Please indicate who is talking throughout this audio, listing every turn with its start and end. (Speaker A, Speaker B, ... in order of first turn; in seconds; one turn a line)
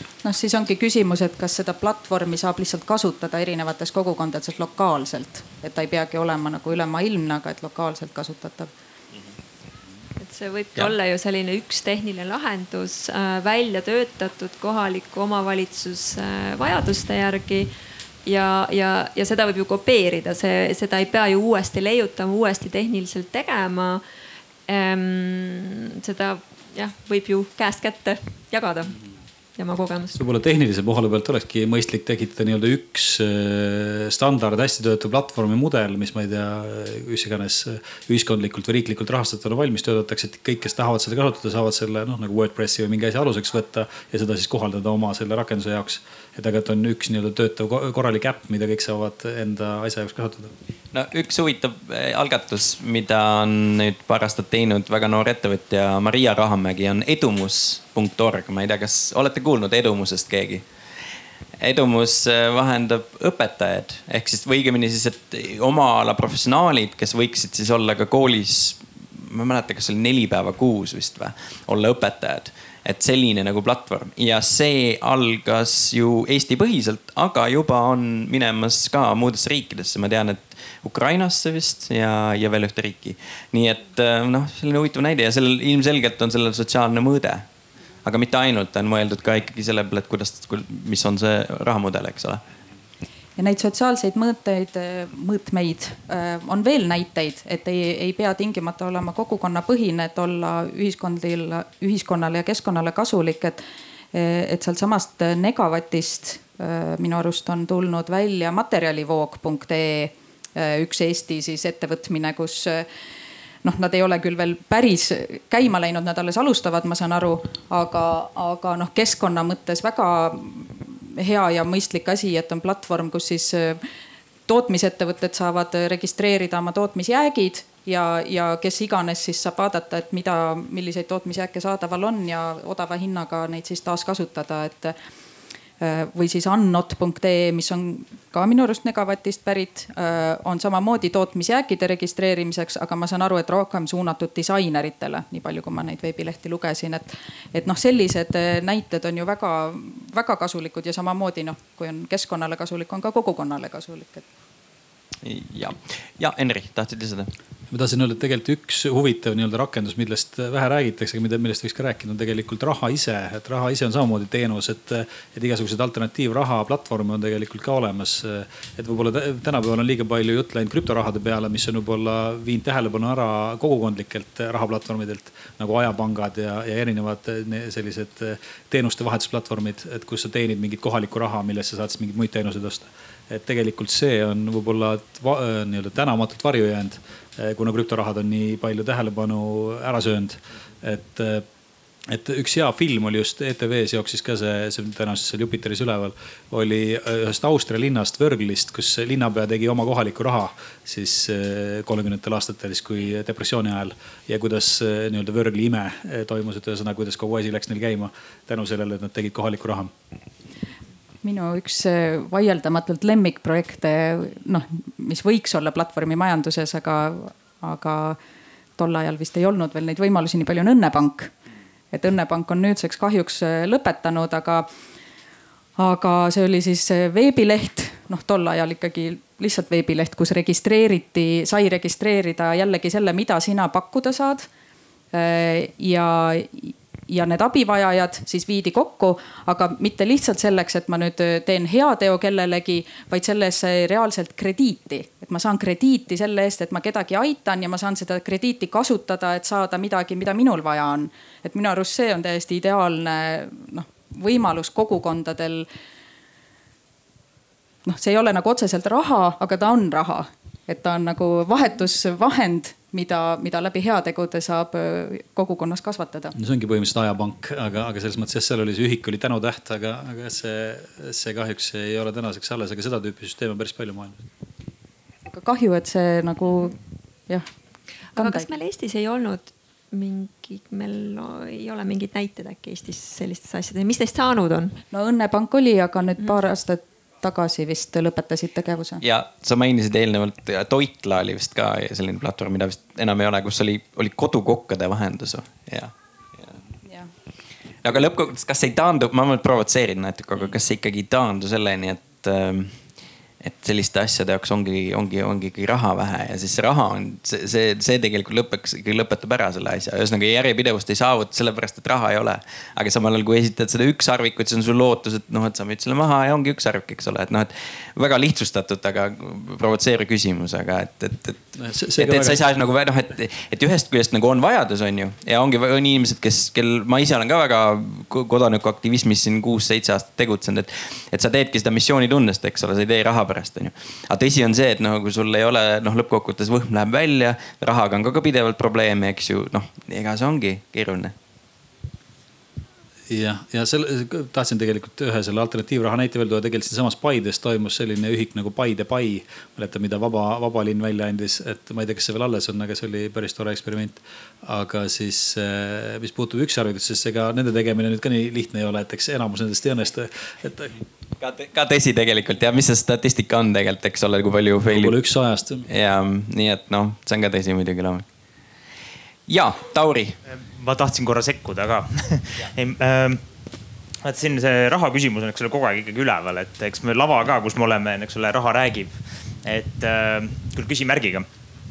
Speaker A: 0.2-8.7
Speaker B: 10.2-17.7
Speaker B: 18.2-24.0
Speaker B: 24.7-29.0
Speaker B: 29.6-30.2
Speaker C: 30.1-50.5
Speaker D: 50.9-60.6
Speaker D: 61.6-87.4
Speaker D: 88.0-92.4
Speaker A: 93.4-103.6
Speaker A: 104.1-112.9
Speaker A: 113.6-123.8
Speaker A: 124.5-134.9
Speaker A: 135.8-154.2
Speaker D: 155.2-157.3
Speaker C: 157.7-191.4
Speaker C: 192.1-209.9
Speaker A: 211.2-218.2
Speaker A: 218.8-221.3
Speaker A: 221.9-224.7
Speaker A: 225.8-234.5
Speaker A: 235.1-255.7
Speaker A: 257.8-266.3
Speaker C: 266.3-274.2
Speaker A: 275.3-276.8
Speaker A: 278.1-278.5
Speaker B: 278.1-284.8
Speaker A: 284.9-289.0
Speaker D: 289.0-296.5
Speaker D: 297.8-302.7
Speaker D: 303.4-341.1
Speaker C: 321.6-322.4
Speaker C: 343.1-360.8
Speaker D: 361.2-364.9
Speaker C: 364.7-365.7
Speaker D: 365.6-368.0
Speaker D: 369.3-370.2
Speaker E: 370.3-373.2
Speaker E: 374.0-381.2